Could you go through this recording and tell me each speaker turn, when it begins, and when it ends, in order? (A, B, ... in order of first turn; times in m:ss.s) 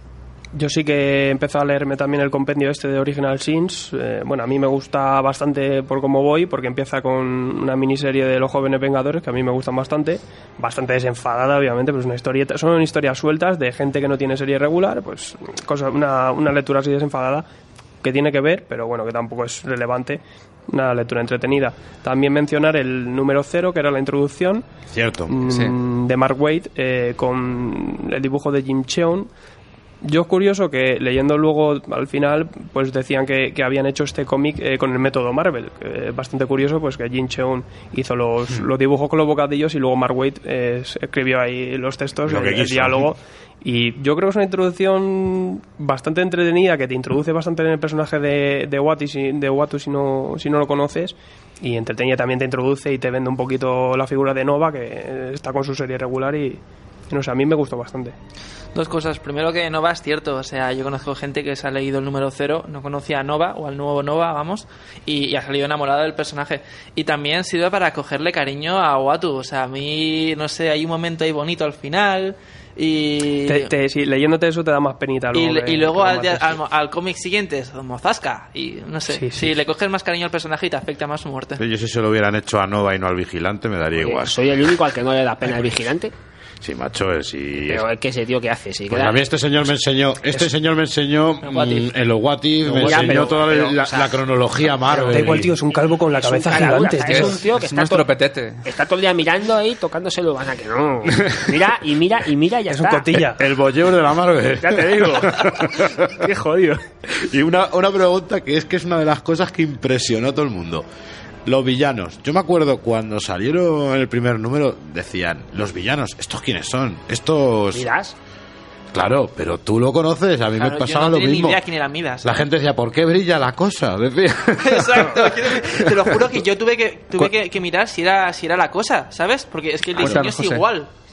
0:00.5-0:17.4 A
0:18.0-0:24.6 A
0:24.9-0:25.4 B
0:25.3-0:29.3 A
0:25.5-0:25.8 C
0:30.0-0:58.1 A
0:42.2-0:43.1 B
0:58.7-1:13.7 D
1:13.4-1:16.6 A
1:15.3-1:21.6 D
1:19.1-1:19.6 A
1:21.6-1:24.4 B
1:23.9-1:26.1 E
1:26.6-1:27.9 B
1:27.7-1:29.2 E
1:28.9-1:35.5 B
1:31.4-1:31.9 D
1:32.6-1:35.5 E
1:34.9-1:37.4 A
1:36.2-1:38.1 E
1:36.9-1:38.6 C
1:38.6-1:43.2 E
1:42.7-1:43.4 A
1:43.3-1:46.2 B
1:44.6-1:46.8 E
1:47.1-1:50.8 B
1:51.4-1:57.9 B
1:57.7-1:58.2 E
1:58.9-2:01.6 B
2:00.6-2:02.4 D
2:02.2-2:06.0 B
2:04.6-2:10.9 D
2:10.0-2:10.2 E
2:10.0-2:10.6 C